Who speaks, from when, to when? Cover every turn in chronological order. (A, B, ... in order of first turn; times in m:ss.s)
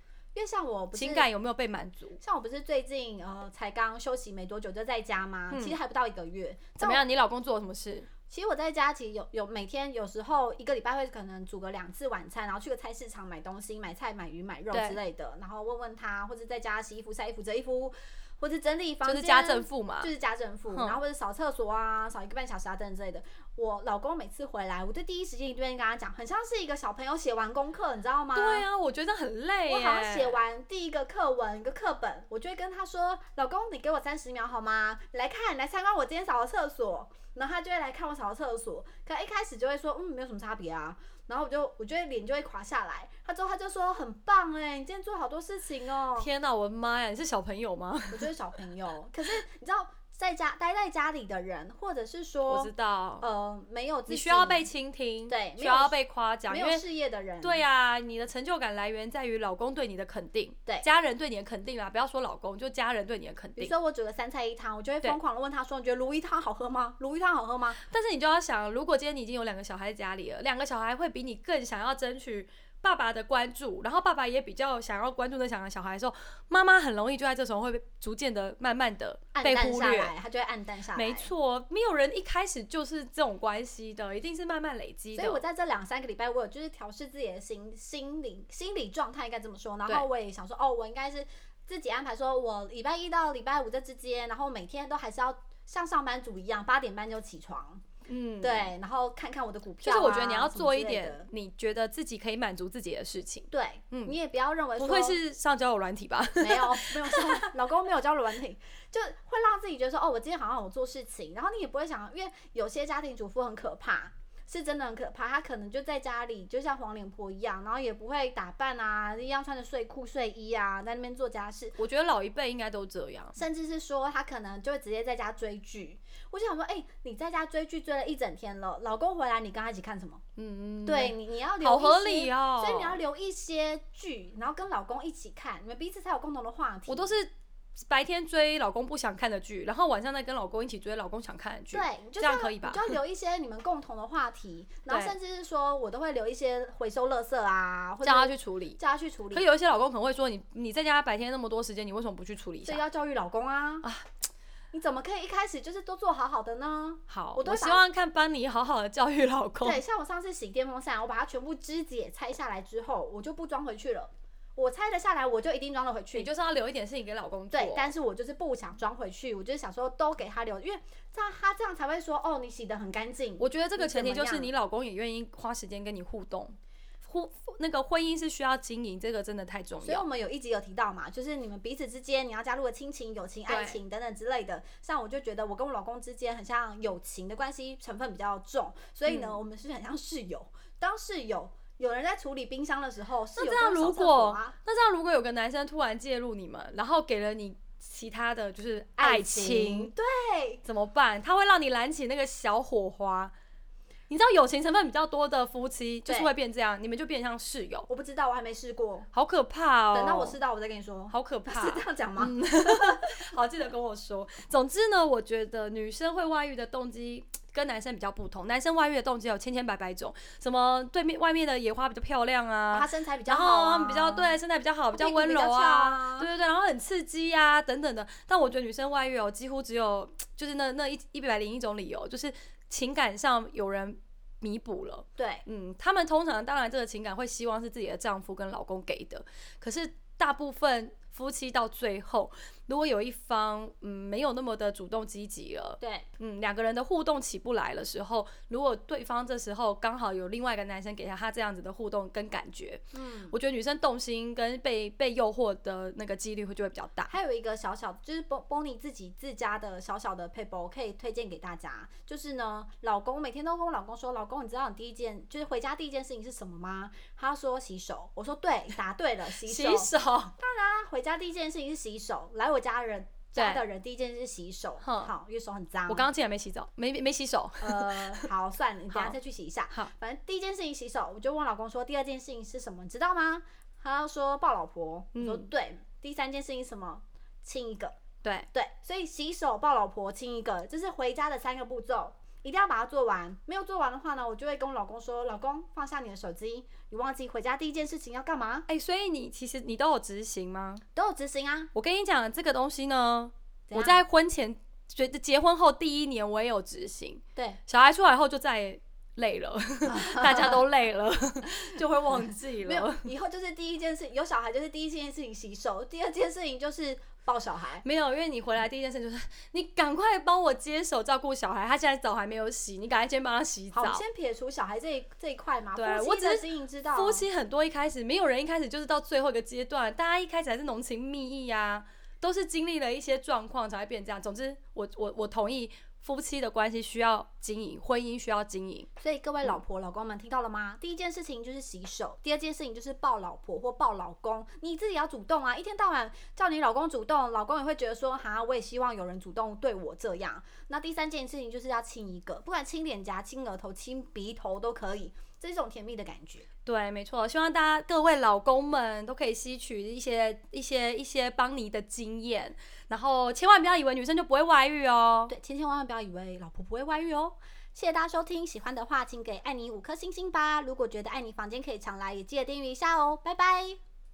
0:00.4-0:01.3 A
0:01.0-0:02.2 B
0:02.2-0:07.0 A
0:05.5-0:05.8 B
0:06.8-0:08.1 B
0:08.3-0:28.7 A
0:14.7-0:15.0 B
0:19.0-0:20.1 B
0:20.7-0:21.0 B
0:28.3-0:30.4 B
0:29.7-0:46.3 A
0:46.2-0:48.3 B
0:48.1-0:54.6 A
0:52.5-0:53.3 B
0:54.1-0:56.8 B
0:55.3-0:57.6 A
0:57.4-1:03.7 B
1:03.6-1:07.8 A
1:07.9-1:20.1 B
1:19.3-1:21.3 A
1:21.0-1:25.4 B
1:25.2-1:37.8 A
1:38.1-1:38.7 B
1:38.4-1:41.3 A
1:39.8-1:44.2 B
1:43.5-1:45.2 A
1:44.8-1:47.5 B
1:46.4-2:01.8 A
2:01.8-2:03.4 B
2:03.4-2:10.2 A
2:10.4-2:13.0 B
2:10.8-2:17.1 A
2:16.9-2:23.0 B
2:21.7-2:29.5 A
2:24.9-2:25.2 B
2:28.0-2:28.8 B
2:29.3-2:32.8 B
2:32.6-2:33.9 A
2:33.8-2:34.1 B
2:34.7-2:37.8 A
2:37.1-2:39.8 B
2:39.6-2:46.3 A
2:46.1-2:47.9 B
2:47.5-2:54.5 A
2:53.4-3:00.1 B
2:59.8-3:14.5 A
3:03.5-3:03.8 B
3:09.1-3:09.4 B
3:13.4-3:19.9 B
3:19.0-3:20.6 A
3:20.6-3:23.3 B
3:24.1-3:27.9 B
3:26.1-3:26.3 A
3:27.9-3:29.1 A
3:29.1-3:30.4 B
3:29.9-3:33.2 A
3:31.1-4:17.1 B
3:42.7-3:44.4 A
3:44.9-3:46.3 A
3:55.2-3:55.4 A
4:05.8-4:06.1 A
4:12.9-4:13.3 A
4:17.1-4:36.1 A
4:29.4-4:30.3 B
4:33.4-4:33.6 B
4:34.8-4:35.1 B
4:35.9-4:38.3 B
4:37.6-4:48.0 A
4:45.1-4:45.5 B
4:48.5-4:58.7 A
4:58.7-5:00.8 B
5:01.0-5:01.7 A
5:01.7-5:13.1 B
5:03.7-5:04.0 A
5:09.9-5:10.6 A
5:12.6-5:17.8 A
5:17.8-5:24.0 B
5:23.7-5:27.2 A
5:25.8-5:38.9 B
5:39.0-5:56.5 A
5:56.7-6:05.3 B
6:05.3-6:13.8 A